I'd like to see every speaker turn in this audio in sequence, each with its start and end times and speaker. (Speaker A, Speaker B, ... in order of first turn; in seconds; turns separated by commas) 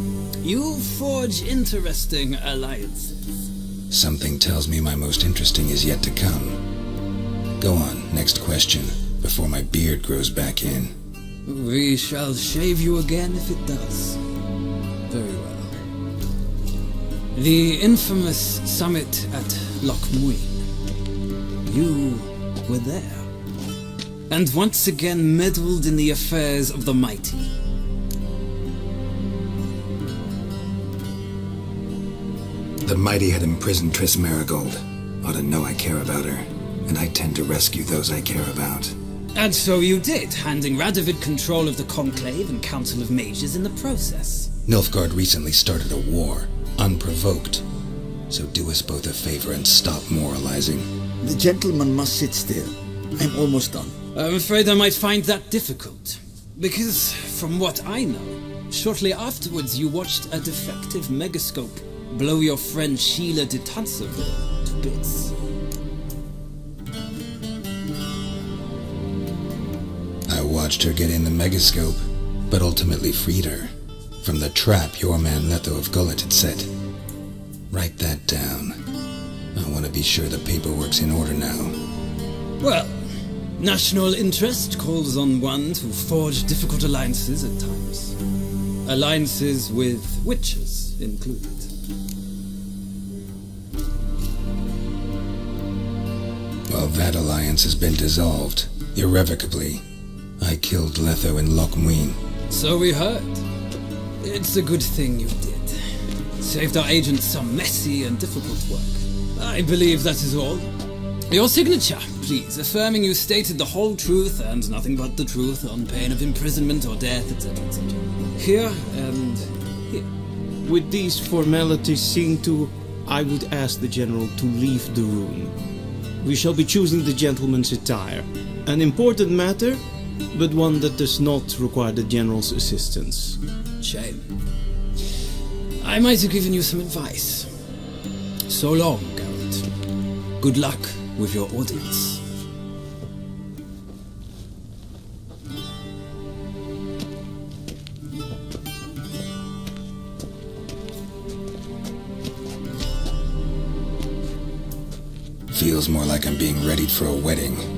Speaker A: 0.4-3.1, Speaker B: 3.9-6.6, Speaker B: 7.6-11.0, Speaker A: 11.5-14.2, Speaker A: 15.1-15.8, Speaker A: 17.3-20.6, Speaker A: 21.7-23.3, Speaker A: 24.3-27.5, Speaker B: 32.8-39.0, Speaker A: 39.4-44.5, Speaker B: 44.7-47.6, Speaker B: 48.3-50.9, Speaker C: 51.2-54.0, Speaker A: 54.1-65.3, Speaker B: 70.3-76.7, Speaker B: 77.7-78.8, Speaker B: 79.5-81.8, Speaker A: 82.6-88.2, Speaker A: 88.8-91.7, Speaker B: 96.7-99.8, Speaker B: 100.4-102.2, Speaker A: 102.5-103.5, Speaker A: 104.2-110.7, Speaker A: 111.3-120.1, Speaker D: 120.6-125.5, Speaker D: 126.2-129.8, Speaker D: 130.3-133.4, Speaker A: 133.8-134.3, Speaker A: 135.8-137.5, Speaker A: 138.5-139.7, Speaker A: 140.4-142.2, Speaker B: 155.5-157.7